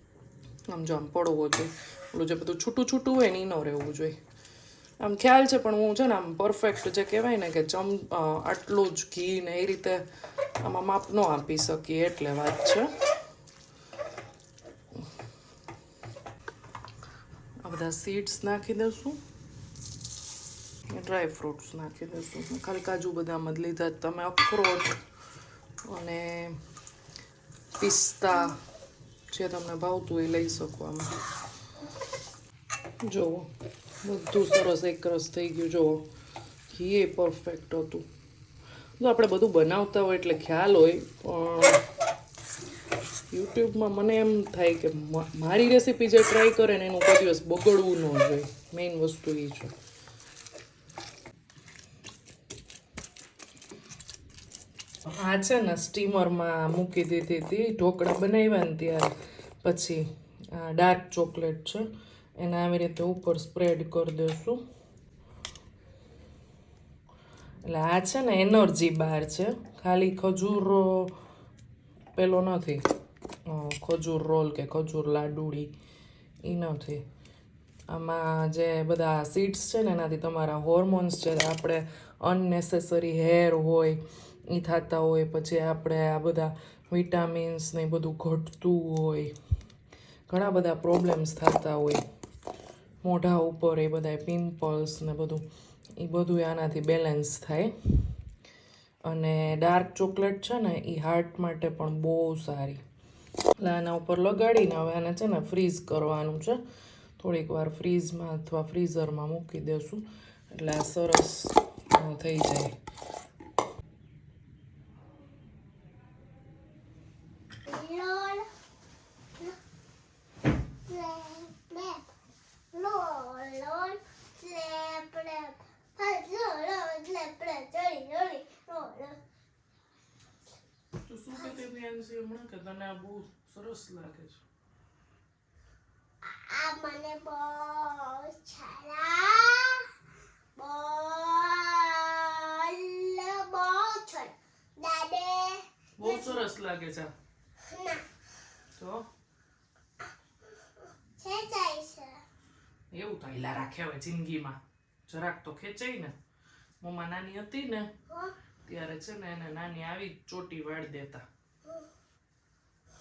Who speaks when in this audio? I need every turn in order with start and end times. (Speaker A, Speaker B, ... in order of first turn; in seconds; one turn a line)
Speaker A: 0.7-4.2
Speaker A: 5.0-10.0
Speaker A: 10.6-12.9
Speaker A: 17.6-19.2
Speaker A: 20.9-24.9
Speaker A: 25.9-26.6
Speaker A: 27.8-28.6
Speaker A: 29.3-31.1
Speaker A: 33.0-33.5
Speaker A: 34.0-36.1
Speaker A: 36.7-38.0
Speaker A: 39.0-41.8
Speaker A: 43.3-49.7
Speaker A: 55.1-59.1
Speaker A: 59.6-61.9
Speaker A: 62.4-64.6
Speaker A: 67.6-71.2
Speaker A: 72.2-72.8
Speaker A: 73.5-75.7
Speaker A: 76.4-77.0
Speaker A: 77.9-89.3
Speaker A: 90.3-92.0
Speaker A: 93.0-95.4
Speaker A: 96.0-98.0
Speaker A: 99.0-102.8
Speaker A: 103.6-106.6
Speaker A: 107.2-112.8
Speaker B: 117.7-118.5
Speaker B: 120.9-122.0
Speaker B: 122.7-129.2
Speaker A: 131.0-134.4
Speaker B: 136.2-139.9
Speaker B: 140.6-146.4
Speaker A: 146.0-147.1
Speaker B: 147.6-148.0
Speaker A: 148.8-149.1
Speaker B: 151.2-152.2
Speaker A: 152.9-156.1
Speaker A: 156.8-157.9
Speaker B: 158.1-158.3
Speaker A: 158.6-161.2